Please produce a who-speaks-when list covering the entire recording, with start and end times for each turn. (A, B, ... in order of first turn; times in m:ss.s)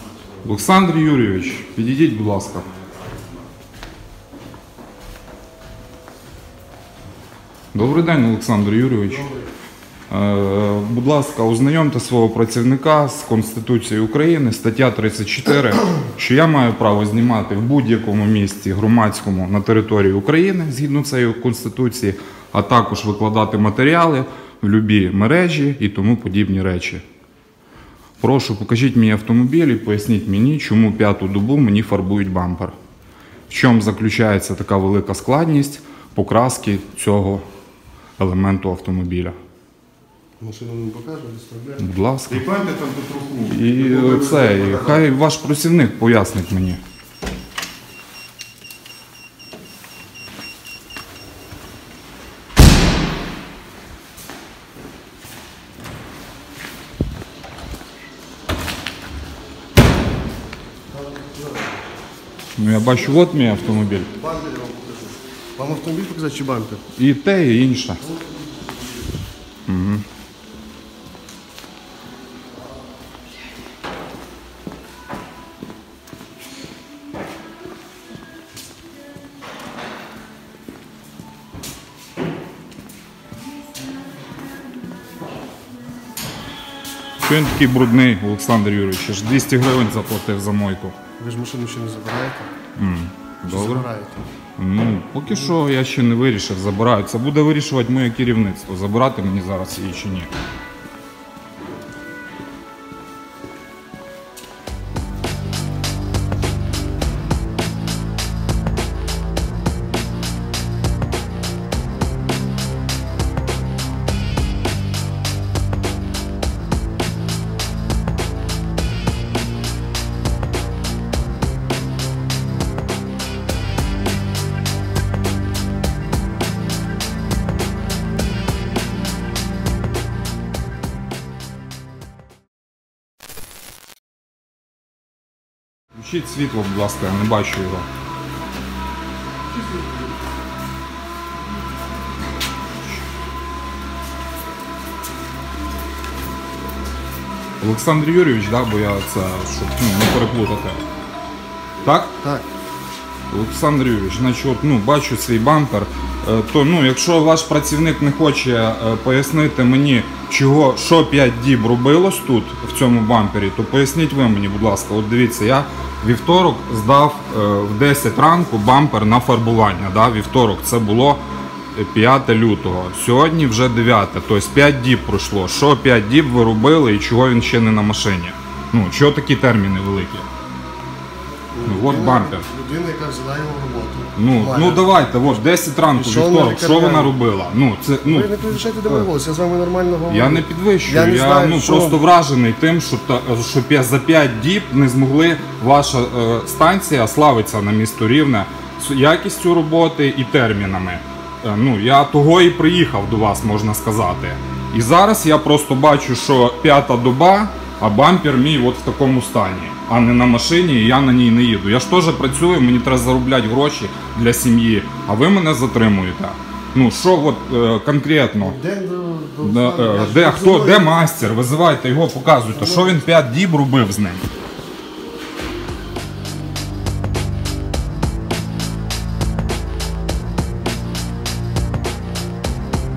0:00.4-0:02.7 A
0:07.7-0:09.3 A
0:10.1-0:27.0 A
0:28.2-0:32.7 A
0:33.5-0:37.4 A
0:38.2-0:39.3 A
0:40.4-0:41.8 B
0:41.8-0:42.4 A
0:42.3-0:45.0 C
0:43.5-0:46.8 A
1:00.9-1:01.8 B
1:02.6-1:04.1 A
1:04.1-1:06.8 B
1:07.0-1:08.0 A
1:08.0-1:08.6 B
1:09.7-1:10.0 A
1:27.2-1:31.0 A
1:31.2-1:32.5 B
1:32.8-1:33.9 A
1:33.5-1:34.2 B
1:34.6-1:40.3 A
2:15.9-2:17.9 A
2:27.6-2:30.8 A
2:31.8-2:32.1 A
2:32.2-2:32.5 B
2:33.3-2:51.2 A
2:51.7-3:00.3 A
3:01.5-3:04.8 B
3:01.6-3:02.4 A
3:04.2-3:09.0 A
3:05.9-3:07.1 B
3:08.0-3:12.0 B
3:10.1-3:38.6 A
3:38.4-3:40.9 B
3:39.4-3:44.2 A
3:42.5-3:43.0 B